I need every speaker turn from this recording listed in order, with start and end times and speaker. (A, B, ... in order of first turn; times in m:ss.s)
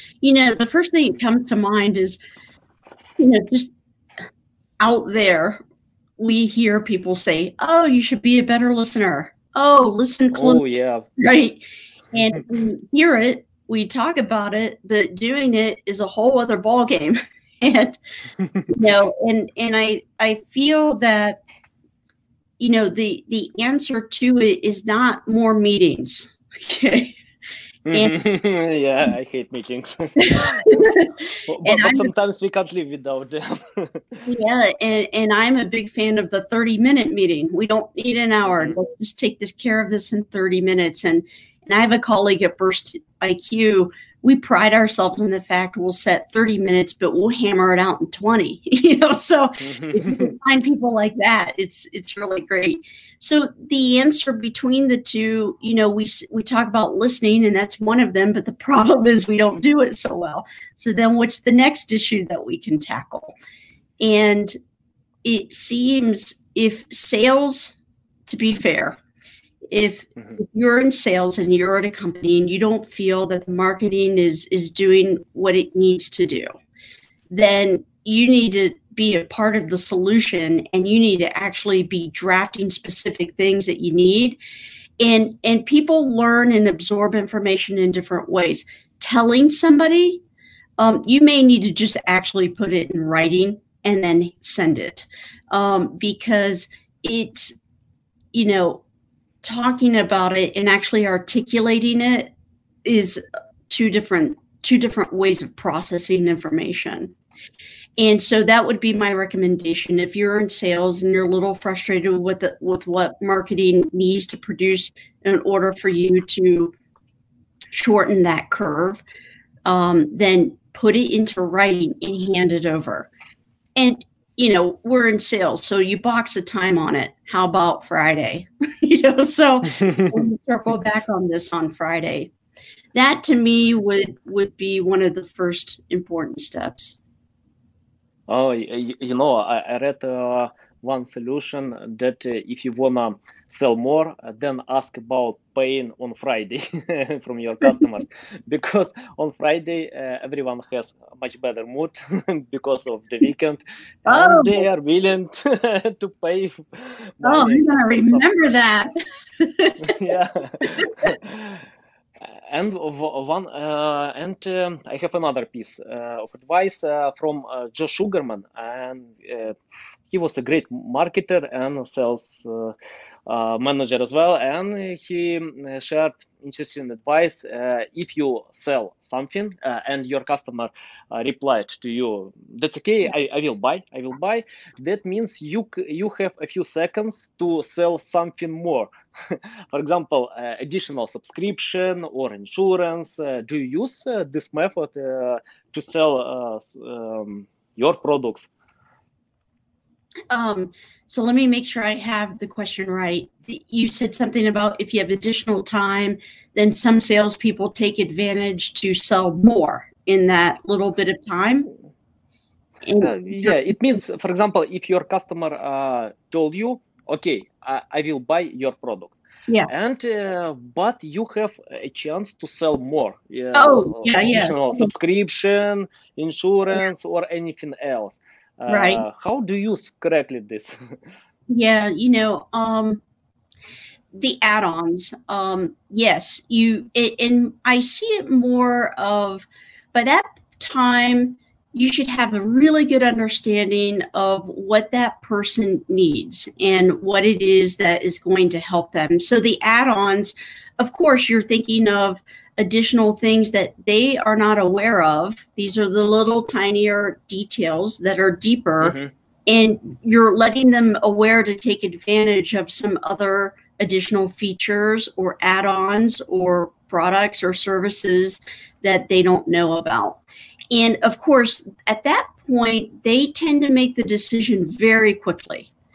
0:00.2-0:02.2 A
0:03.2-0:03.7 A
0:04.8-0:05.6 A
0:06.2-0:10.6 A
0:10.3-0:11.1 B
0:11.2-0:18.0 A
0:18.7-0:21.4 A
0:22.6-0:27.2 A
0:27.9-0:30.7 B
0:30.2-0:32.1 A
0:31.5-0:34.2 B
0:34.2-1:03.3 A
0:49.6-0:50.3 B
1:04.0-1:04.6 A
1:05.2-1:07.8 A
1:08.3-1:09.0 A
1:09.7-1:16.5 A
1:17.3-1:24.4 A
1:25.0-1:30.2 A
1:30.8-1:37.5 A
1:38.3-1:38.8 A
1:39.4-1:42.3 A
1:42.8-1:47.1 A
1:48.0-1:56.7 A
1:57.7-1:59.0 A
1:59.6-2:03.1 A
2:03.8-2:12.3 A
2:09.8-2:10.2 B
2:12.9-2:17.0 A
2:18.3-2:38.3 B
2:34.0-2:34.6 A
2:37.2-2:39.9 A
2:39.8-2:41.6 B
2:40.8-2:41.0 A
2:42.2-2:49.5 B
2:50.1-2:52.8 B
2:53.3-3:18.5 B
3:20.3-3:31.7 A
3:32.8-3:33.6 A
3:33.0-3:39.2 B
3:39.7-3:50.8 B
3:43.5-3:44.9 A
3:48.7-3:49.0 A
3:51.5-3:53.0 A
3:54.1-4:35.7 A
4:18.8-4:19.1 B